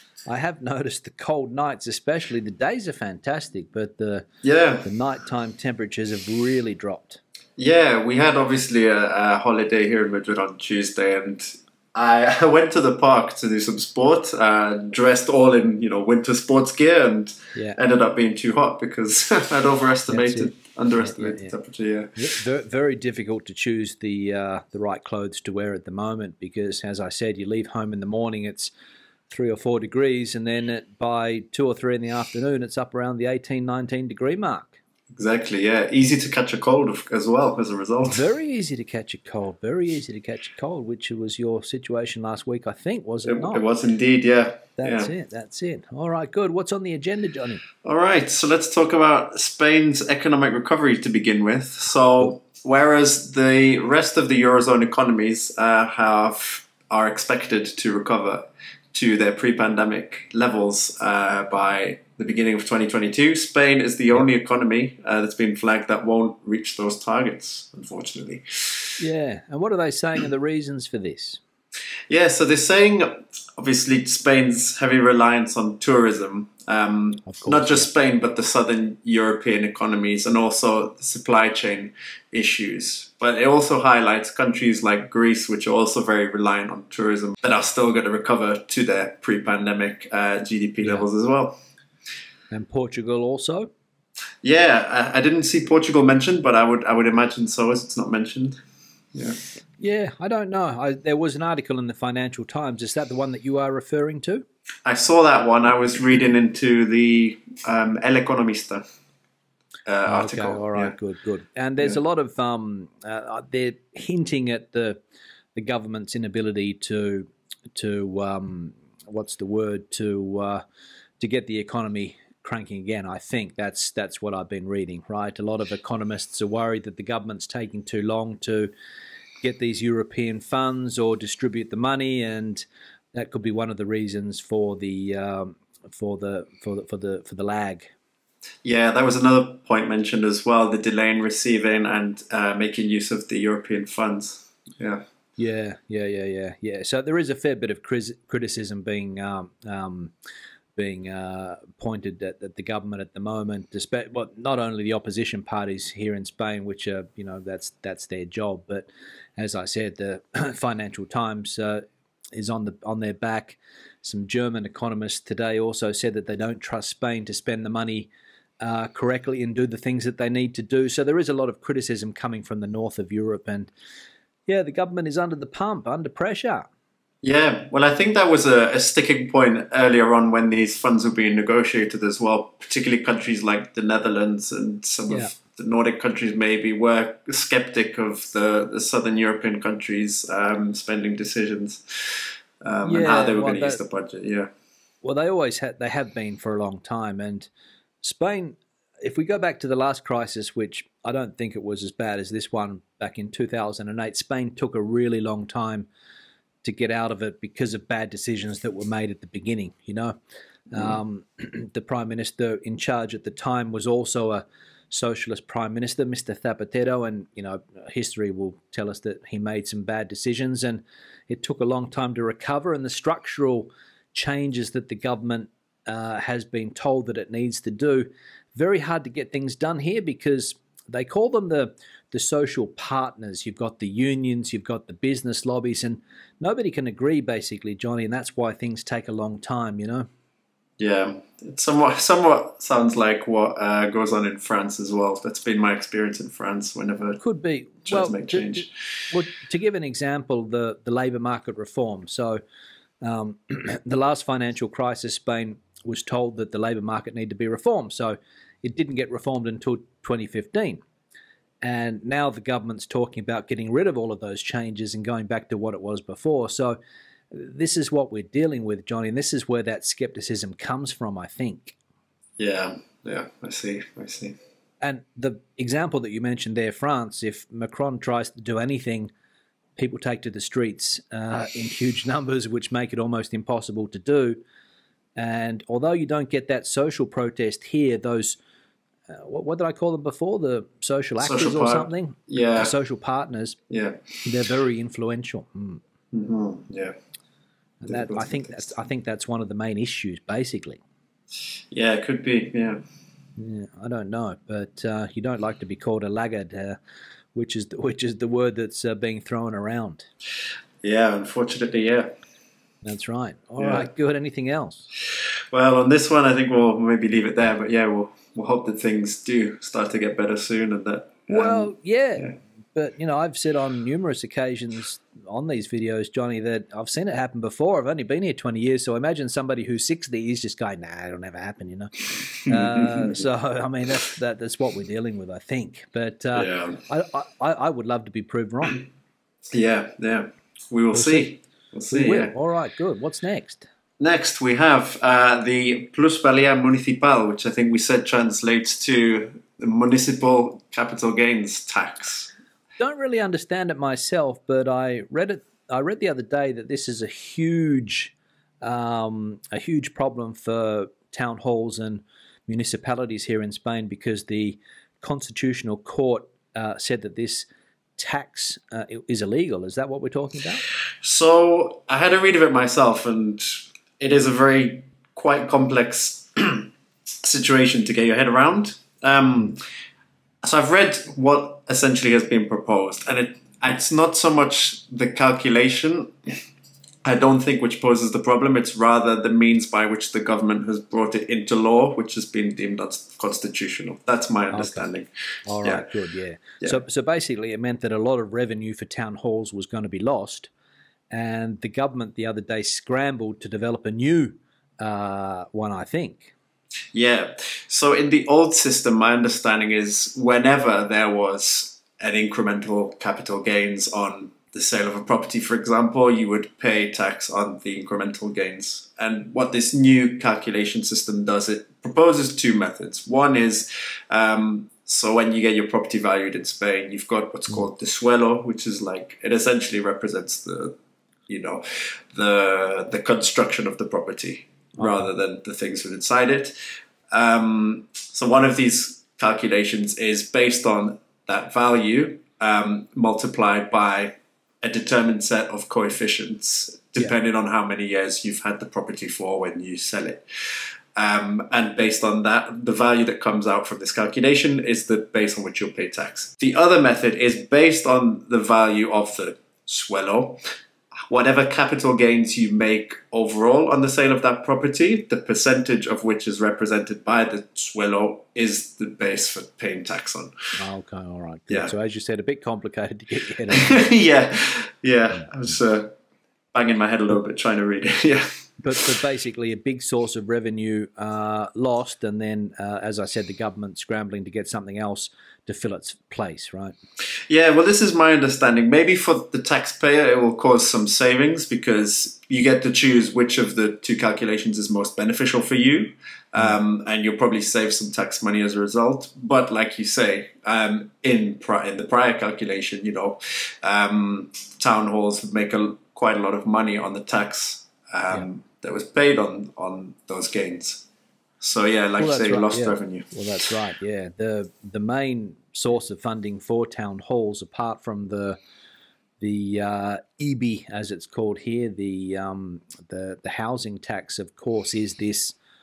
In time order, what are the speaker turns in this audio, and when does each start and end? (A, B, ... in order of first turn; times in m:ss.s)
0:00.3-0:04.3 A
0:04.4-0:04.9 B
0:04.8-0:07.2 A
0:07.6-0:22.2 B
0:20.1-0:21.5 A
0:22.2-0:28.7 A
0:29.3-0:34.8 A
0:35.1-0:38.2 B
0:38.1-0:43.6 A
0:43.2-0:45.1 B
0:44.8-0:47.6 A
0:47.8-1:09.0 B
1:09.0-1:11.4 A
1:12.1-1:31.6 B
1:17.3-1:17.9 A
1:30.8-1:31.1 A
1:32.5-1:33.7 A
1:34.4-1:38.6 B
1:39.8-1:44.4 A
1:44.8-1:48.8 B
1:49.9-1:51.0 B
1:50.0-1:55.0 A
1:55.5-2:00.6 A
2:01.2-2:08.7 A
2:09.4-2:17.9 A
2:18.6-2:25.0 B
2:25.4-2:30.1 A
2:30.8-2:41.8 A
2:42.3-2:48.1 A
2:48.6-2:53.7 A
2:54.5-2:56.7 A
2:57.2-3:14.5 B
3:12.8-3:13.8 A
3:15.0-3:17.5 A
3:18.0-3:25.9 A
3:26.6-3:30.1 A
3:30.7-4:00.1 A
4:00.8-4:07.2 B
4:07.2-4:12.4 A
4:07.8-4:08.7 B
4:13.0-4:20.8 A
4:21.6-4:26.8 A
4:27.3-4:31.8 A
4:32.4-4:34.4 B
4:34.8-4:39.1 A
4:39.8-4:44.4 A
4:45.2-4:48.4 A
4:49.1-4:53.6 A
4:51.2-4:52.7 B
4:53.7-4:54.2 B
4:54.2-4:55.8 A
4:56.1-4:56.9 B
4:57.8-5:00.8 A
4:57.9-4:58.7 B
5:01.7-5:02.8 B
5:03.4-5:06.8 A
5:07.3-5:10.1 A
5:10.8-5:12.1 B
5:12.8-5:14.9 A
5:13.6-5:13.9 B
5:15.1-5:22.3 B
5:21.3-5:38.8 A
5:32.4-5:33.2 B
5:36.3-5:36.8 B
5:39.5-5:42.3 B
5:40.9-5:41.3 A
5:41.9-5:43.6 A
5:44.0-5:52.3 B
5:52.8-6:10.6 A
6:11.0-6:16.7 B
6:17.2-6:19.6 B
6:20.4-6:26.1 B
6:27.0-6:35.1 B
6:34.5-6:34.9 A
6:35.5-6:40.5 A
6:35.6-6:35.9 B
6:41.1-6:46.3 A
6:46.9-7:10.8 B
7:11.3-7:16.5 B
7:14.8-7:15.1 A
7:17.1-7:40.4 B
7:41.1-7:50.3 B
7:50.6-7:53.9 A
7:53.5-7:55.9 B
7:55.1-7:55.5 A
7:56.5-7:58.9 B
7:58.6-8:06.8 A
8:07.3-8:30.8 B
8:31.4-8:33.2 B
8:32.0-8:38.4 A
8:39.2-8:45.4 A